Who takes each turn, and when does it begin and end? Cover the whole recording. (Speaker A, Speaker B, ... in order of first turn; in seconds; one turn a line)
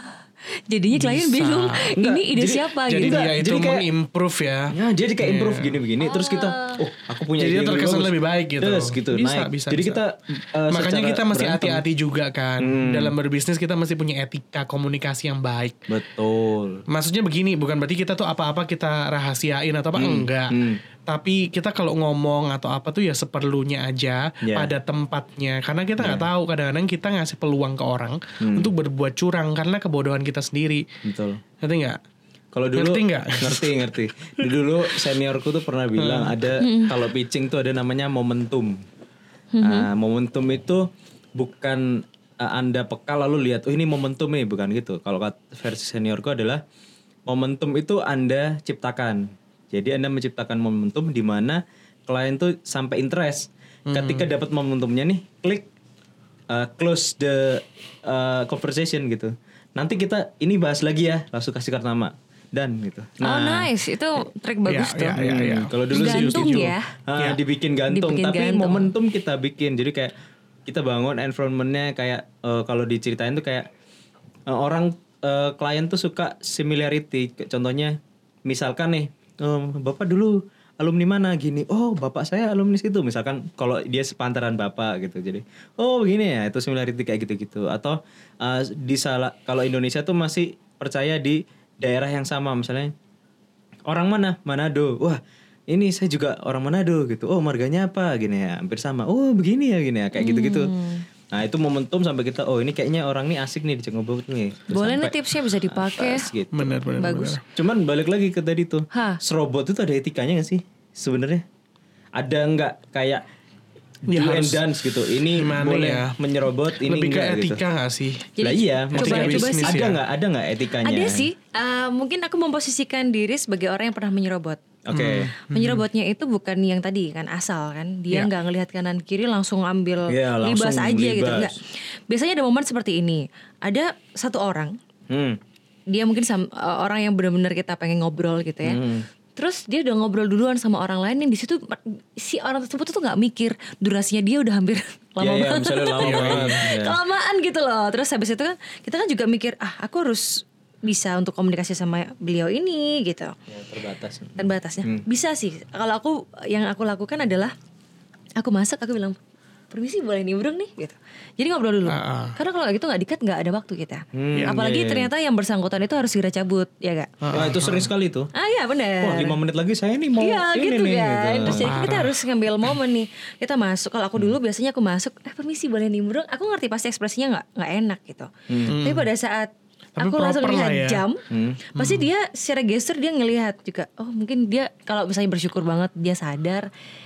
Speaker A: 0.7-3.2
Speaker B: 0.9-1.9
Speaker C: 1.9-3.9
Speaker B: 2.9-5.8
Speaker C: 4.7-11.9
Speaker A: 6.0-6.8
Speaker B: 7.4-10.0
Speaker B: 10.7-15.8
Speaker C: 12.6-13.1
Speaker C: 15.9-16.8
Speaker B: 16.9-30.9
Speaker C: 20.0-20.8
Speaker C: 24.4-24.7
Speaker C: 26.0-26.3
Speaker C: 28.4-28.7
Speaker C: 31.0-31.4
Speaker B: 31.6-32.0
Speaker C: 32.5-38.8
Speaker B: 32.8-33.8
Speaker B: 36.0-36.3
Speaker A: 36.6-36.9
Speaker A: 39.5-39.9
Speaker C: 39.6-46.6
Speaker C: 47.3-55.7
Speaker B: 53.9-54.3
Speaker C: 56.5-63.7
Speaker A: 63.2-65.2
Speaker B: 64.7-67.4
Speaker C: 65.2-70.1
Speaker A: 65.9-66.9
Speaker A: 67.9-68.9
Speaker C: 70.7-73.7
Speaker C: 74.5-92.9
Speaker C: 93.9-100.7
Speaker A: 100.2-101.0
Speaker C: 101.3-106.8
Speaker A: 104.7-106.3
Speaker B: 106.5-107.4
Speaker A: 107.0-107.4
Speaker C: 107.5-111.4
Speaker A: 108.9-109.2
Speaker C: 112.2-113.2
Speaker C: 114.1-117.6
Speaker B: 114.1-114.6
Speaker B: 115.3-116.2
Speaker B: 116.8-118.4
Speaker A: 118.4-119.8
Speaker C: 118.4-121.3
Speaker B: 119.0-120.0
Speaker A: 120.8-124.6
Speaker C: 124.9-125.3
Speaker B: 124.9-125.8
Speaker A: 125.5-134.7
Speaker C: 130.1-131.5
Speaker C: 135.1-135.4
Speaker A: 135.9-138.8
Speaker C: 138.6-139.1
Speaker A: 139.4-153.3
Speaker C: 145.2-147.0
Speaker B: 146.0-146.6
Speaker C: 153.5-155.1
Speaker A: 154.4-157.5
Speaker A: 158.4-159.2
Speaker A: 159.7-167.1
Speaker B: 161.9-162.4
Speaker C: 164.1-165.1
Speaker B: 167.2-167.9
Speaker C: 167.3-168.3
Speaker A: 168.3-169.4
Speaker C: 169.0-171.7
Speaker A: 170.2-181.2
Speaker B: 171.4-172.2
Speaker C: 178.5-178.8
Speaker B: 178.7-179.1
Speaker B: 180.0-181.0
Speaker C: 181.3-181.7
Speaker B: 181.8-182.1
Speaker A: 181.8-186.7